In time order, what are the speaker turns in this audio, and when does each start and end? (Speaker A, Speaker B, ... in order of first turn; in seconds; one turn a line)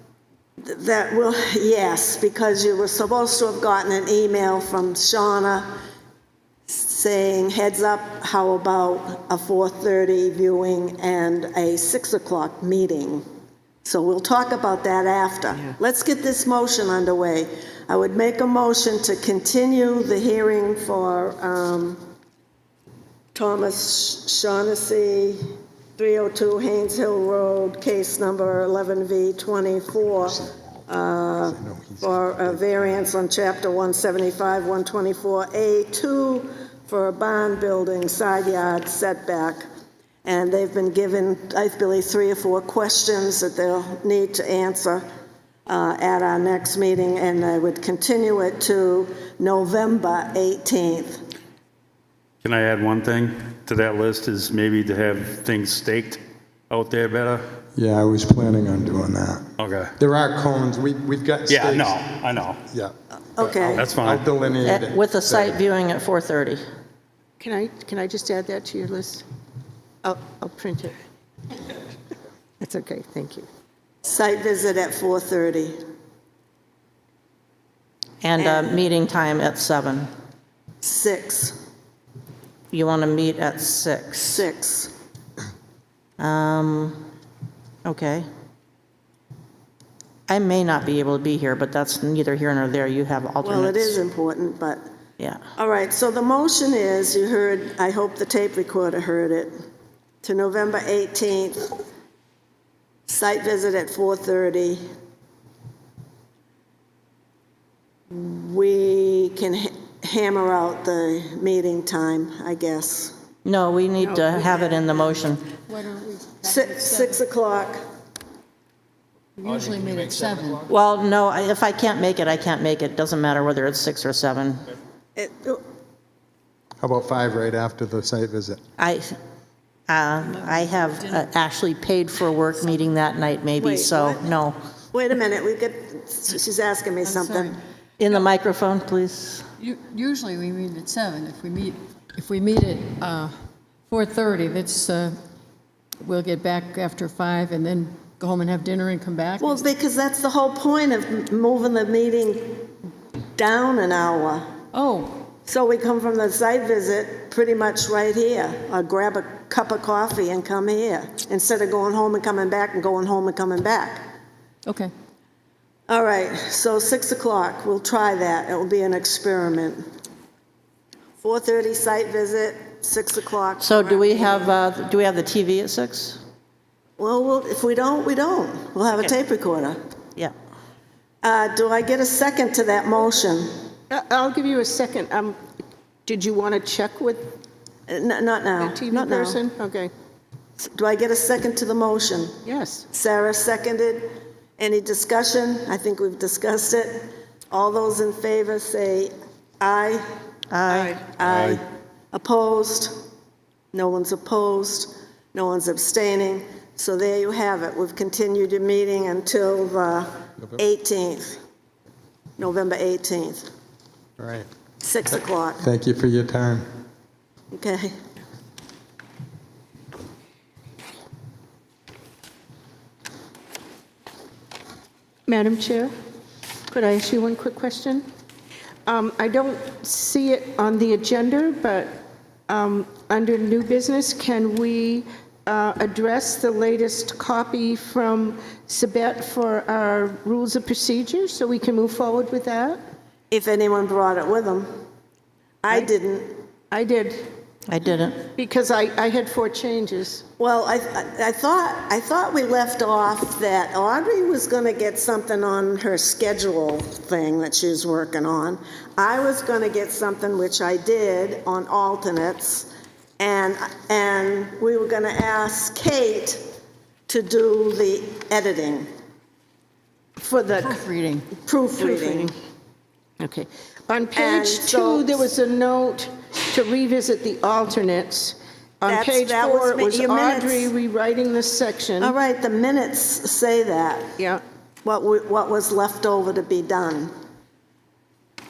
Speaker A: 0.6-5.8
Speaker A: 6.7-13.2
Speaker A: 13.8-22.0
Speaker A: 23.3-25.4
Speaker A: 26.0-39.6
Speaker B: 31.5-33.0
Speaker A: 40.2-45.0
Speaker A: 45.7-51.2
Speaker C: 52.4-56.2
Speaker C: 56.7-57.4
Speaker B: 57.7-62.0
Speaker C: 59.6-59.9
Speaker C: 61.5-62.6
Speaker B: 62.7-65.6
Speaker A: 63.4-63.9
Speaker C: 63.7-64.3
Speaker D: 64.6-66.6
Speaker E: 67.4-69.2
Speaker E: 70.0-71.0
Speaker E: 72.6-73.5
Speaker A: 74.0-75.8
Speaker D: 78.2-80.1
Speaker A: 78.4-78.8
Speaker A: 80.8-81.6
Speaker D: 82.7-84.4
Speaker A: 84.2-84.9
Speaker D: 86.2-87.0
Speaker D: 87.8-88.3
Speaker D: 90.3-94.0
Speaker A: 93.4-94.8
Speaker A: 95.5-99.5
Speaker A: 100.2-101.7
Speaker A: 103.1-104.8
Speaker A: 108.1-113.1
Speaker D: 113.4-115.5
Speaker E: 114.0-114.8
Speaker F: 115.7-117.2
Speaker A: 116.4-117.8
Speaker F: 119.4-120.7
Speaker D: 120.7-124.7
Speaker A: 125.2-125.6
Speaker B: 126.8-128.6
Speaker D: 128.8-129.1
Speaker D: 129.9-134.6
Speaker A: 133.6-134.3
Speaker A: 134.9-137.6
Speaker F: 137.2-137.5
Speaker D: 138.0-139.4
Speaker F: 139.6-143.3
Speaker F: 143.9-145.1
Speaker F: 146.0-149.7
Speaker A: 149.4-152.7
Speaker A: 153.3-154.5
Speaker F: 154.7-155.2
Speaker A: 155.4-164.1
Speaker F: 164.7-164.9
Speaker A: 165.9-169.8
Speaker A: 171.2-174.5
Speaker D: 173.6-176.2
Speaker A: 177.0-179.8
Speaker A: 181.2-183.5
Speaker E: 183.9-185.4
Speaker E: 186.1-187.4
Speaker A: 187.9-189.4
Speaker E: 188.6-189.9
Speaker A: 190.6-192.3
Speaker E: 192.4-192.9
Speaker A: 192.9-200.0
Speaker D: 200.5-200.9
Speaker E: 200.7-201.0
Speaker A: 201.2-203.0
Speaker C: 201.2-201.6
Speaker A: 203.7-211.4
Speaker A: 212.4-213.5
Speaker B: 214.2-214.5
Speaker A: 214.8-215.6
Speaker B: 215.6-216.7
Speaker A: 217.5-217.9
Speaker E: 225.3-225.9
Speaker E: 226.7-228.1
Speaker E: 228.8-242.8
Speaker A: 243.3-244.7
Speaker A: 245.6-246.4
Speaker E: 246.7-247.3
Speaker D: 247.7-248.2
Speaker E: 248.3-250.2
Speaker A: 250.4-266.5
Speaker A: 267.1-268.9
Speaker E: 270.2-270.9
Speaker F: 270.6-271.3
Speaker A: 271.4-272.3
Speaker E: 271.8-272.3
Speaker E: 273.2-282.1
Speaker A: 274.1-275.2
Speaker A: 278.9-280.7
Speaker A: 282.0-284.1
Speaker A: 284.8-287.1